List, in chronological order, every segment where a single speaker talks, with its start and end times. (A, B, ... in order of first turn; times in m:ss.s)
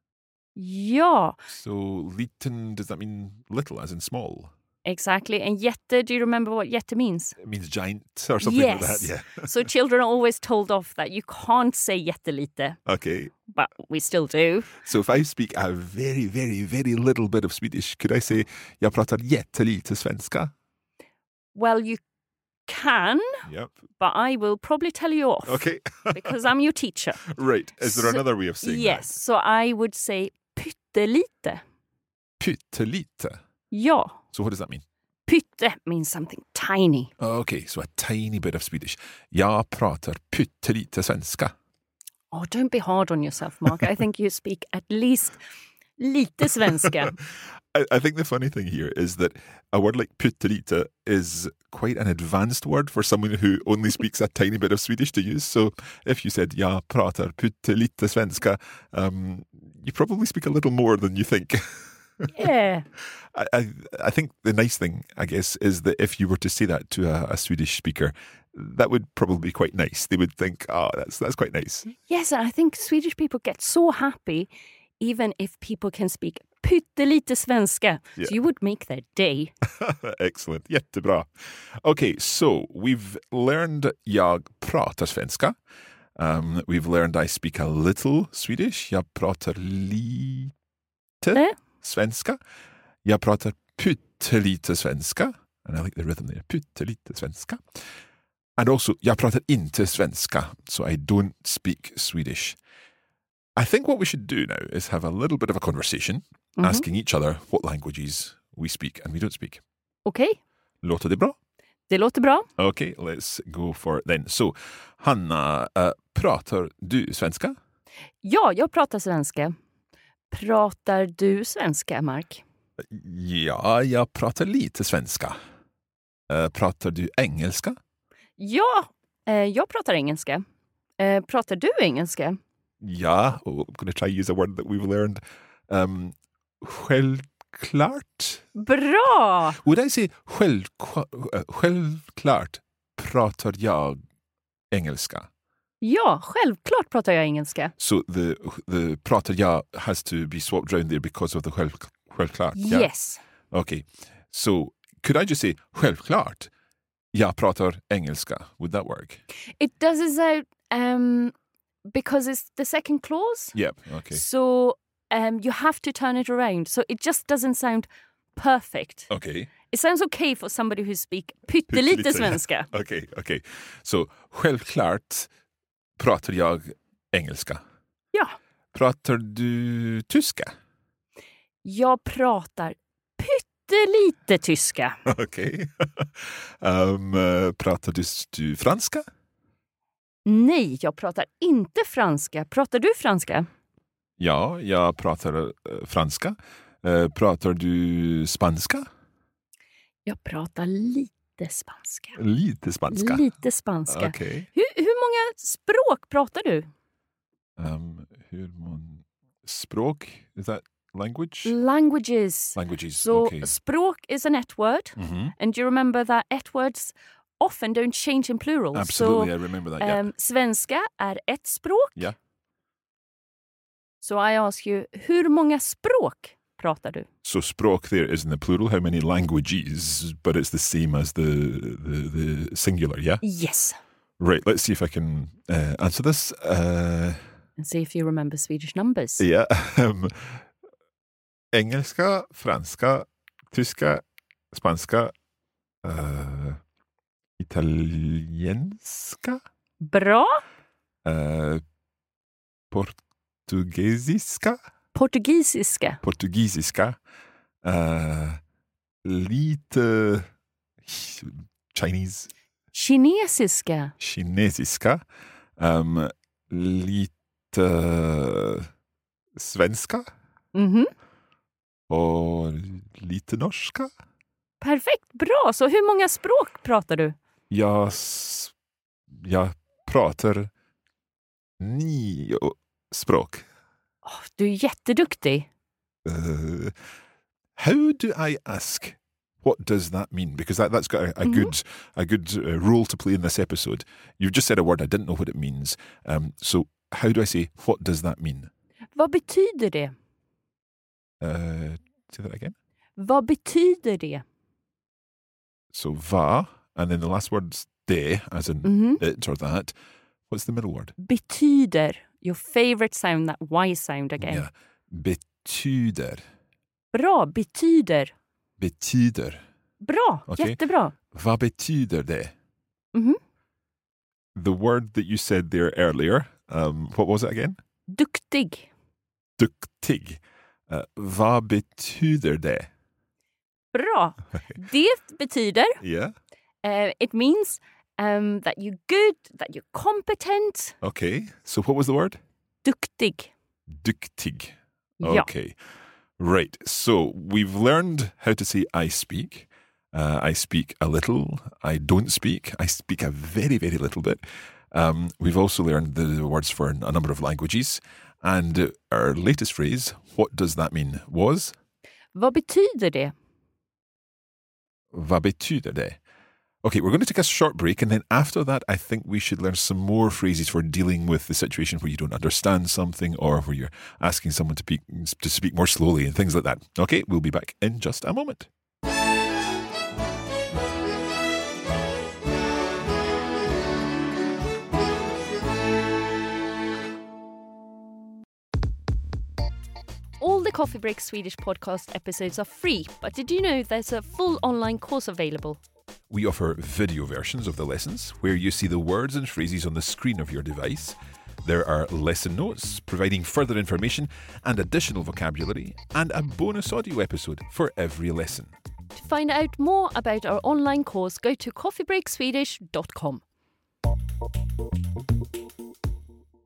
0:00.6-0:01.4 A
0:01.5-0:04.5 B
0:04.8-0:07.4 A
0:07.4-0:09.7 B
0:08.4-0:12.8 A
0:12.8-0:13.3 B
0:13.5-0:14.8 A
0:14.8-0:20.5 B
0:21.5-0:22.0 A
0:22.7-0:23.4 A
0:23.5-0:23.8 B
0:24.0-0:27.2 A
0:25.4-0:26.5 B
0:27.2-0:29.2 B
0:27.8-0:31.6 A
0:32.4-0:33.4 B
0:33.7-0:34.2 A
0:34.3-0:34.8 B
0:35.3-0:37.1 A
0:37.2-0:41.5 B
0:42.3-0:45.4 A
0:46.0-0:47.2 A
0:46.8-0:47.2 B
0:47.7-1:02.4 B
1:02.3-1:02.8 A
1:03.3-1:11.9 B
1:12.1-1:19.5 A
1:19.8-1:25.5 B
1:26.2-1:30.5 B
1:31.2-1:32.4 B
1:33.0-1:37.8 B
1:38.6-1:42.6 B
1:43.6-1:49.6 B
1:46.6-1:46.8 A
1:50.0-1:50.4 A
1:50.8-1:51.4 B
1:51.9-1:52.5 A
1:52.6-1:57.6 B
1:58.2-1:59.5 A
2:00.3-2:02.4 A
2:02.8-2:05.4 B
2:06.3-2:07.8 B
2:08.4-2:10.4 A
2:11.0-2:12.4 A
2:12.8-2:18.4 B
2:18.5-2:19.6 A
2:19.6-2:24.0 B
2:24.7-2:25.3 B
2:25.8-2:27.7 A
2:27.8-2:32.9 B
2:32.5-2:33.2 A
2:33.5-2:36.5 B
2:37.1-2:39.2 B
2:39.6-2:41.3 A
2:41.9-2:43.6 A
2:43.5-2:44.2 B
2:44.1-2:49.1 A
2:49.1-2:49.5 B
2:49.6-2:52.7 A
2:51.7-2:55.3 B
2:56.0-2:57.6 B
2:58.7-3:00.5 B
3:01.6-3:05.0 A
3:05.0-3:09.0 B
3:10.2-3:13.5 A
3:14.2-3:18.9 B
3:20.0-3:22.2 A
3:22.2-3:23.2 B
3:22.9-3:26.7 A
3:23.9-3:24.5 B
3:27.6-3:31.5 B
3:31.4-3:42.1 A
3:32.6-3:33.5 B
3:35.0-3:35.3 B
3:38.7-3:40.1 B
3:44.0-3:47.1 A
3:47.2-3:53.2 B
3:53.2-3:53.8 A
3:54.2-3:57.2 B
3:57.6-3:59.2 A
3:59.2-4:00.4 B
4:01.5-4:05.1 B
4:05.8-4:06.6 B
4:07.4-4:09.4 B
4:09.8-4:10.4 A
4:11.0-4:11.6 B
4:12.7-4:13.0 B
4:13.5-4:14.6 B
4:14.9-4:16.0 A
4:16.0-4:17.0 B
4:17.6-4:18.4 B
4:19.0-4:20.3 B
4:20.9-4:22.3 B
4:22.7-4:23.9 A
4:24.0-4:25.0 B
4:25.6-4:28.7 B
4:29.4-4:30.1 B
4:30.5-4:30.9 A
4:31.9-4:33.9 B
4:34.6-4:37.2 A
4:37.5-4:38.5 B
4:39.2-4:40.5 B
4:41.6-4:43.4 B
4:44.0-4:45.5 A
4:46.0-4:46.7 B
4:47.6-4:58.5 B
4:51.2-4:51.5 A
4:58.9-4:59.9 A
5:01.2-5:02.5 B
5:03.0-5:04.2 A
5:05.7-5:09.7 B
5:08.6-5:09.0 A
5:10.3-5:10.9 B
5:11.0-5:14.4 A
5:14.2-5:16.2 B
5:16.9-5:18.1 A
5:18.6-5:19.4 B
5:19.8-5:20.9 A
5:20.3-5:20.6 B
5:21.1-5:22.3 B
5:22.9-5:23.2 A
5:24.3-5:27.6 B
5:27.9-5:28.7 A
5:29.4-5:32.7 B
5:33.7-5:35.8 A
5:35.8-5:36.1 B
5:36.6-5:40.7 A
5:40.8-5:42.2 B
5:42.6-5:43.3 A
5:43.7-5:45.6 B
5:45.0-5:45.3 A
5:46.2-6:01.5 B
6:02.1-6:03.1 A
6:04.9-6:06.0 B
6:06.6-6:18.5 B
6:30.2-6:35.6 A
6:36.1-6:48.5 B
6:49.0-6:53.2 A